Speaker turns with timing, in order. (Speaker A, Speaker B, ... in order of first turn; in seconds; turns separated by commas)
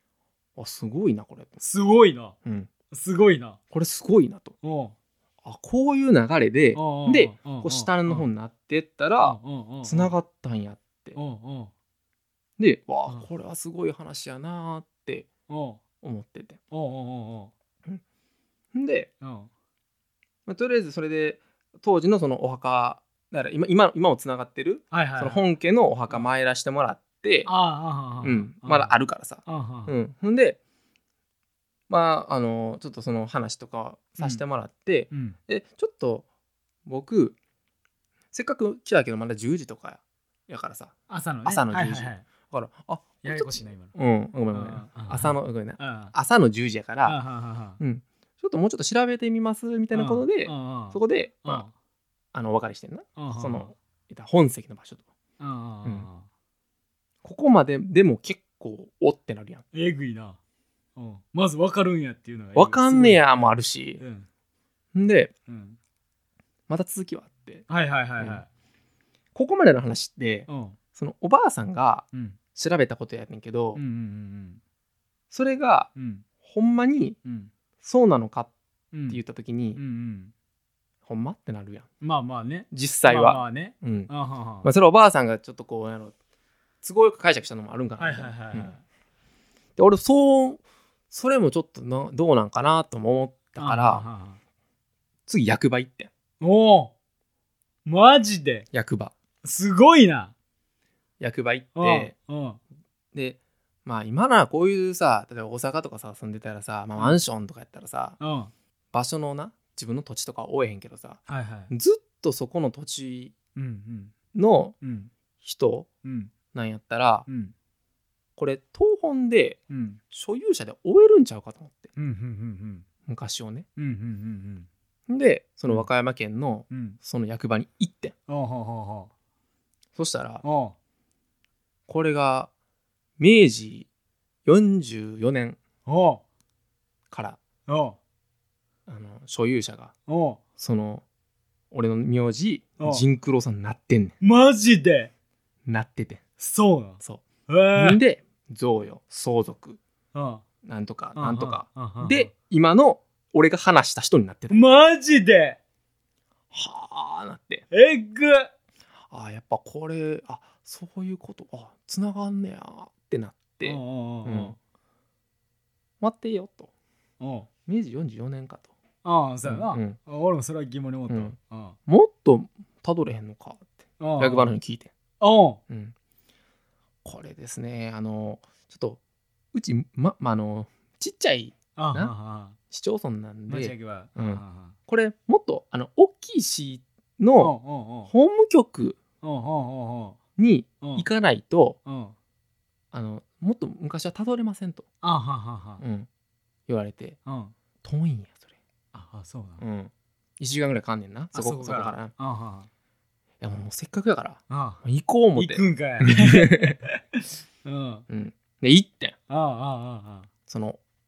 Speaker A: 0.6-1.6, Speaker B: 1.6-2.4, Speaker A: 2.4-2.7, Speaker B: 2.9-3.6, Speaker A: 3.7-4.5, Speaker B: 4.6-4.9, Speaker A: 5.4-11.2, Speaker B: 6.7-8.3, Speaker B: 9.2-10.1, Speaker B: 11.2-11.7, Speaker A: 12.6-15.3, Speaker B: 15.5-15.8, Speaker A: 16.0-16.6, Speaker B: 16.7-17.5, Speaker A: 18.7-19.1, Speaker B: 19.2-19.5, Speaker A: 20.5-27.5, Speaker B: 24.9-25.4, Speaker B: 27.4-29.9, Speaker A: 28.2-30.6, Speaker A: 31.9-36.2, Speaker B: 35.1-35.4, Speaker A: 36.9-37.3, Speaker A: 38.3-40.9, Speaker B: 41.1-42.2, Speaker A: 41.4-47.2, Speaker B: 43.2-43.9, Speaker B: 44.5-46.1, Speaker B: 47.0-47.8, Speaker A: 47.8-51.6, Speaker B: 49.9-51.7, Speaker A: 52.3-55.0, Speaker B: 53.2-53.7, Speaker B: 55.4-56.3, Speaker A: 57.2-59.6, Speaker B: 59.7-60.4, Speaker B: 61.0-64.3, Speaker A: 62.5-64.0, Speaker A: 64.9-65.3, Speaker B: 65.5-65.8, Speaker A: 66.7-67.7, Speaker B: 67.7-68.5, Speaker A: 69.3-73.8, Speaker B: 70.5-70.8, Speaker B: 72.1-72.4, Speaker B: 73.8-74.6, Speaker A: 75.3-75.9, Speaker B: 76.0-76.2, Speaker A: 76.4-77.2, Speaker B: 77.2-77.5, Speaker A: 77.8-78.5, Speaker B: 78.9-79.2, Speaker A: 79.1-79.8, Speaker B: 79.8-80.3, Speaker A: 81.0-81.9, Speaker B: 82.0-84.7, Speaker A: 82.7-84.1, Speaker A: 84.6-86.1, Speaker A: 86.8-88.7, Speaker B: 88.0-88.8, Speaker A: 89.8-94.0, Speaker B: 93.6-94.4, Speaker A: 95.3-96.1, Speaker B: 96.4-96.9, Speaker B: 97.8-98.7, Speaker A: 98.7-99.1, Speaker B: 99.4-100.3, Speaker A: 101.2-102.1, Speaker B: 101.8-102.6, Speaker A: 103.1-108.2, Speaker B: 107.0-107.2, Speaker B: 108.2-108.5, Speaker A: 108.9-113.3, Speaker B: 111.3-111.7, Speaker B: 113.5-114.1, Speaker A: 114.3-114.7, Speaker B: 114.8-115.1, Speaker A: 115.4-115.9, Speaker B: 116.0-116.3, Speaker A: 116.5-117.3, Speaker B: 117.3-117.5, Speaker A: 118.4-119.6, Speaker B: 119.7-120.0, Speaker A: 120.1-121.9, Speaker B: 122.0-122.8, Speaker A: 123.1-123.7, Speaker B: 123.8-124.7, Speaker A: 125.1-128.1, Speaker B: 126.7-127.0, Speaker B: 128.3-129.1, Speaker A: 129.9-130.4, Speaker B: 130.4-130.7, Speaker A: 131.9-132.5, Speaker A: 133.2-133.9, Speaker A: 134.4-135.6, Speaker B: 135.8-136.2, Speaker A: 137.1-137.4, Speaker B: 137.7-138.0, Speaker A: 138.9-139.9, Speaker B: 140.1-140.4, Speaker A: 140.6-141.0, Speaker A: 141.7-144.2, Speaker B: 144.2-145.1, Speaker A: 145.7-146.2, Speaker B: 146.4-148.0, Speaker A: 147.0-149.8, Speaker B: 150.1-150.4, Speaker A: 150.6-154.6, Speaker B: 151.2-152.3, Speaker B: 154.5-155.6, Speaker A: 156.5-157.6, Speaker B: 157.7-158.5, Speaker A: 159.1-164.6, Speaker B: 163.6-164.6, Speaker A: 166.0-166.7, Speaker B: 167.2-167.5, Speaker A: 167.7-168.7, Speaker B: 169.0-171.8, Speaker A: 169.4-170.0, Speaker A: 171.1-171.3, Speaker A: 171.9-174.9, Speaker B: 174.0-174.5, Speaker B: 175.2-175.6, Speaker A: 175.7-175.9, Speaker A: 177.0-179.0, Speaker A: 179.5-182.1, Speaker B: 181.8-182.6, Speaker A: 182.7-187.5, Speaker B: 183.5-184.8, Speaker B: 187.4-188.1, Speaker A: 188.1-189.0, Speaker B: 189.2-190.2, Speaker A: 190.4-191.8, Speaker B: 190.8-191.1, Speaker B: 191.8-192.1, Speaker A: 192.9-194.8, Speaker B: 195.0-195.8, Speaker A: 195.8-196.1, Speaker A: 196.7-197.2, Speaker B: 197.2-197.5, Speaker A: 197.8-198.5, Speaker B: 198.9-199.6, Speaker A: 199.6-202.1, Speaker B: 201.3-202.7, Speaker A: 203.4-206.8, Speaker B: 204.5-204.8, Speaker B: 205.3-208.0, Speaker A: 208.1-209.2, Speaker B: 209.3-210.3, Speaker A: 210.5-210.8